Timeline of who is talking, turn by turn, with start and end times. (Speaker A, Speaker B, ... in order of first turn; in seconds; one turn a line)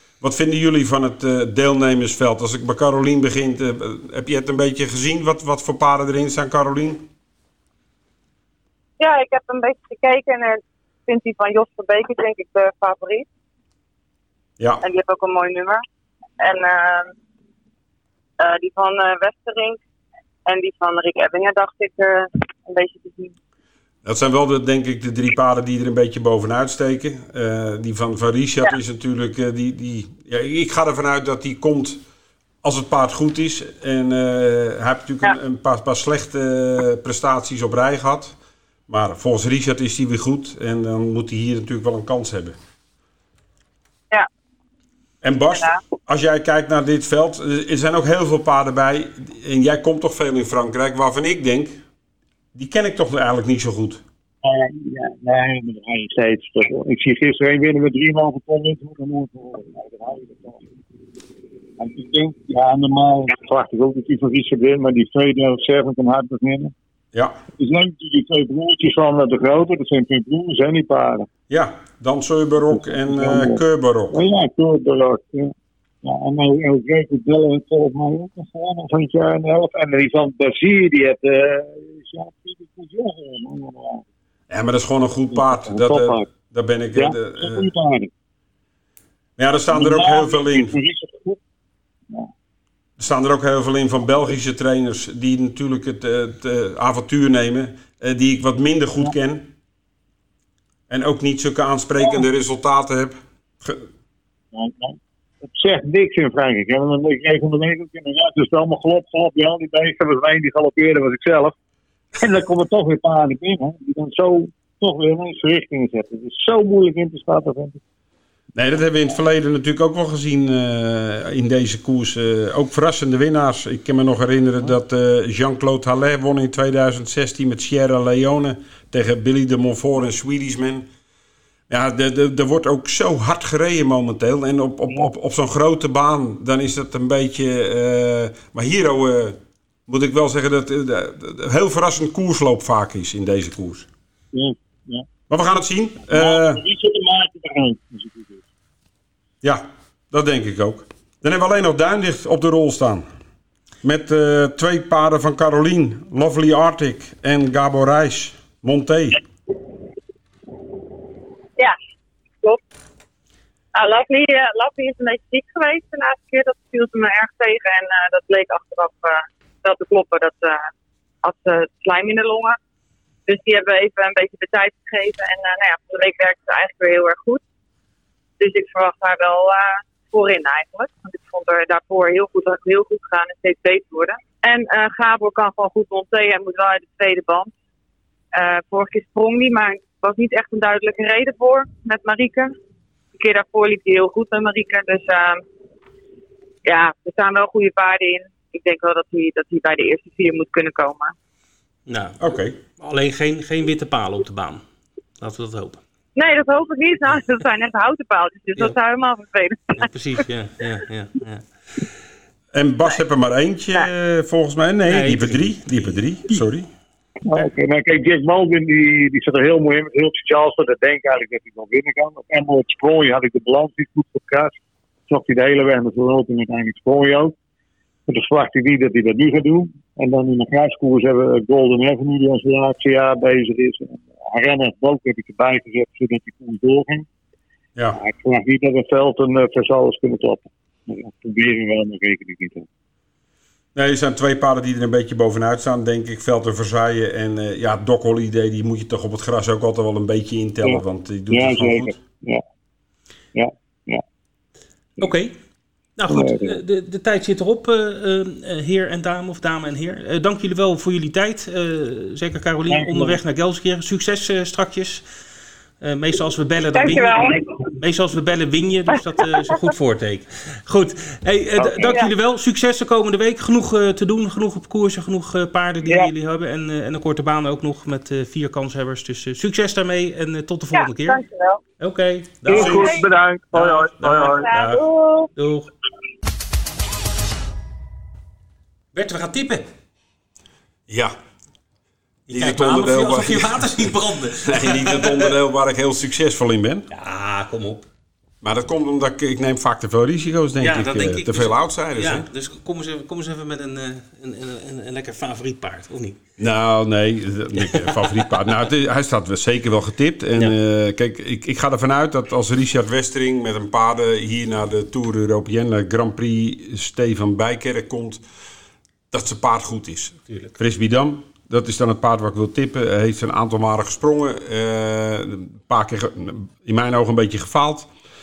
Speaker A: 0.2-7.1
Speaker B: 9.0-13.3
Speaker A: 14.6-14.8
Speaker B: 14.8-15.8
Speaker B: 16.4-17.1
Speaker B: 18.4-19.8
Speaker B: 20.5-23.3
Speaker A: 24.0-32.0
Speaker A: 32.6-38.4
Speaker A: 38.9-42.6
Speaker A: 45.2-51.8
Speaker B: 45.5-45.8
Speaker A: 52.5-54.0
Speaker C: 54.4-60.6
Speaker C: 61.8-66.7
Speaker C: 67.6-71.3
Speaker A: 71.5-74.2
Speaker C: 72.7-73.6
Speaker C: 74.1-84.0
Speaker A: 84.5-87.7
Speaker C: 85.3-86.3
Speaker C: 87.0-88.1
Speaker A: 89.4-90.8
Speaker C: 89.7-91.4
Speaker A: 93.0-99.5
Speaker A: 100.9-103.9
Speaker C: 104.5-111.5
Speaker C: 112.2-117.8
Speaker A: 118.5-130.9
Speaker A: 131.7-143.9
Speaker C: 144.3-145.1
Speaker A: 145.3-146.6
Speaker C: 146.1-148.4
Speaker A: 149.4-153.1
Speaker A: 153.8-159.2
Speaker B: 163.8-170.7
Speaker B: 171.2-172.6
Speaker B: 173.3-177.4
Speaker B: 178.4-187.5
Speaker B: 188.3-192.5
Speaker B: 193.2-195.4
Speaker B: 196.7-201.1
Speaker D: 201.9-202.2
Speaker A: 202.2-202.6
Speaker D: 202.8-204.6
Speaker D: 205.2-205.8
Speaker B: 206.2-209.8
Speaker D: 209.7-211.4
Speaker A: 212.5-216.7
Speaker D: 214.9-216.0
Speaker C: 217.2-224.6
Speaker C: 225.1-227.3
Speaker C: 228.1-237.1
Speaker C: 237.9-242.7
Speaker A: 243.8-251.9
Speaker C: 250.6-252.4
Speaker C: 253.3-254.0
Speaker D: 255.0-255.3
Speaker D: 256.0-265.0
Speaker C: 256.1-256.6
Speaker C: 262.7-263.2
Speaker D: 265.8-281.2
Speaker B: 266.7-267.4
Speaker C: 271.6-271.9
Speaker B: 280.7-281.6
Speaker D: 281.8-283.0
Speaker C: 282.5-284.5
Speaker B: 282.5-283.1
Speaker D: 283.5-284.9
Speaker B: 284.4-285.3
Speaker D: 285.4-285.7
Speaker D: 288.9-289.7
Speaker A: 290.9-291.1
Speaker D: 292.3-295.3
Speaker A: 292.3-293.9
Speaker A: 294.4-296.9
Speaker D: 296.9-297.9
Speaker A: 298.4-302.3
Speaker D: 300.6-306.2
Speaker A: 306.4-318.2
Speaker D: 307.6-308.3
Speaker A: 319.1-327.9